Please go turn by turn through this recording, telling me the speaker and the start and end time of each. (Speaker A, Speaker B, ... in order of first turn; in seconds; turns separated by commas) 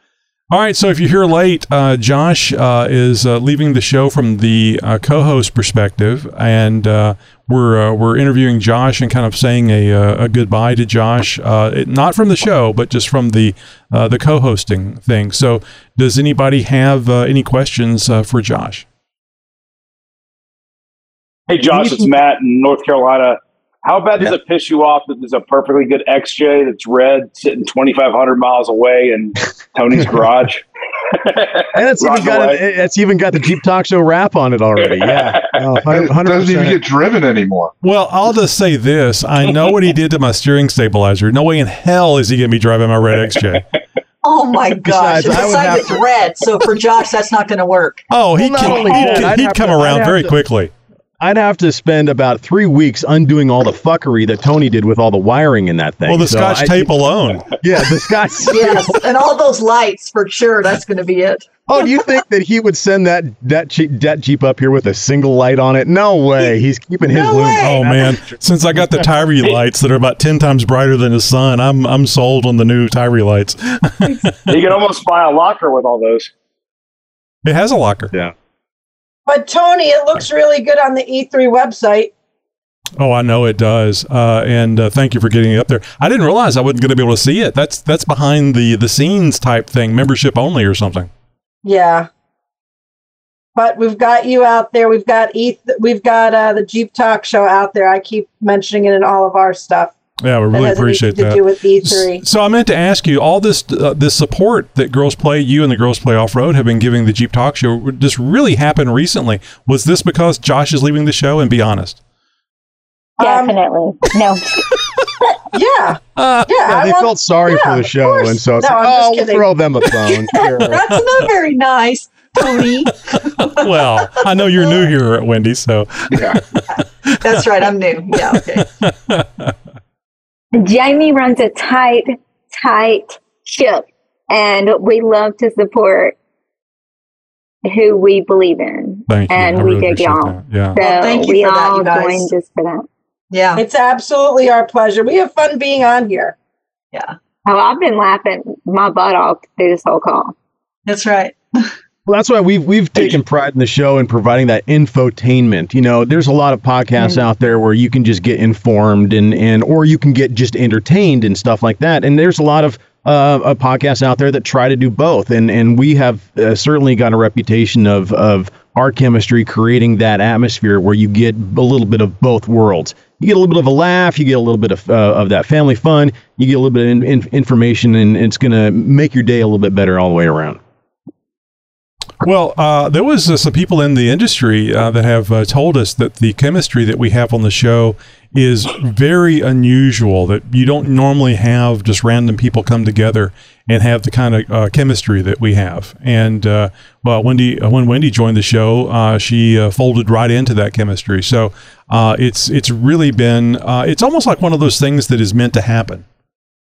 Speaker A: 0.5-18.9, Speaker B: 21.5-30.6, Speaker C: 21.7-22.1, Speaker B: 31.2-32.6, Speaker C: 31.7-36.8, Speaker D: 35.9-37.7, Speaker A: 37.8-43.6, Speaker E: 44.2-48.0, Speaker C: 44.8-46.0, Speaker A: 48.1-50.7, Speaker C: 48.4-50.4, Speaker C: 51.2-56.9, Speaker A: 56.1-57.6, Speaker C: 57.5-59.0, Speaker E: 58.5-61.4, Speaker C: 61.7-68.4, Speaker E: 67.1-68.0, Speaker A: 67.6-74.5, Speaker B: 74.5-76.3, Speaker A: 77.4-78.1, Speaker F: 79.2-82.1, Speaker A: 83.0-91.1, Speaker F: 91.6-92.1, Speaker F: 93.5-99.9, Speaker A: 100.2-112.0, Speaker F: 100.5-102.2, Speaker G: 113.2-114.7, Speaker E: 115.5-116.8, Speaker A: 116.2-116.5, Speaker F: 116.6-119.6, Speaker C: 116.7-120.8, Speaker E: 120.4-124.7, Speaker A: 122.9-127.2, Speaker D: 126.1-126.4, Speaker E: 126.8-128.6, Speaker A: 128.3-129.5, Speaker G: 130.5-136.2, Speaker G: 137.6-142.8, Speaker A: 139.1-140.8, Speaker E: 140.8-142.3, Speaker E: 143.3-143.6, Speaker F: 143.6-146.3, Speaker G: 147.4-150.3, Speaker E: 150.9-151.7, Speaker C: 152.1-180.6, Speaker A: 182.2-206.0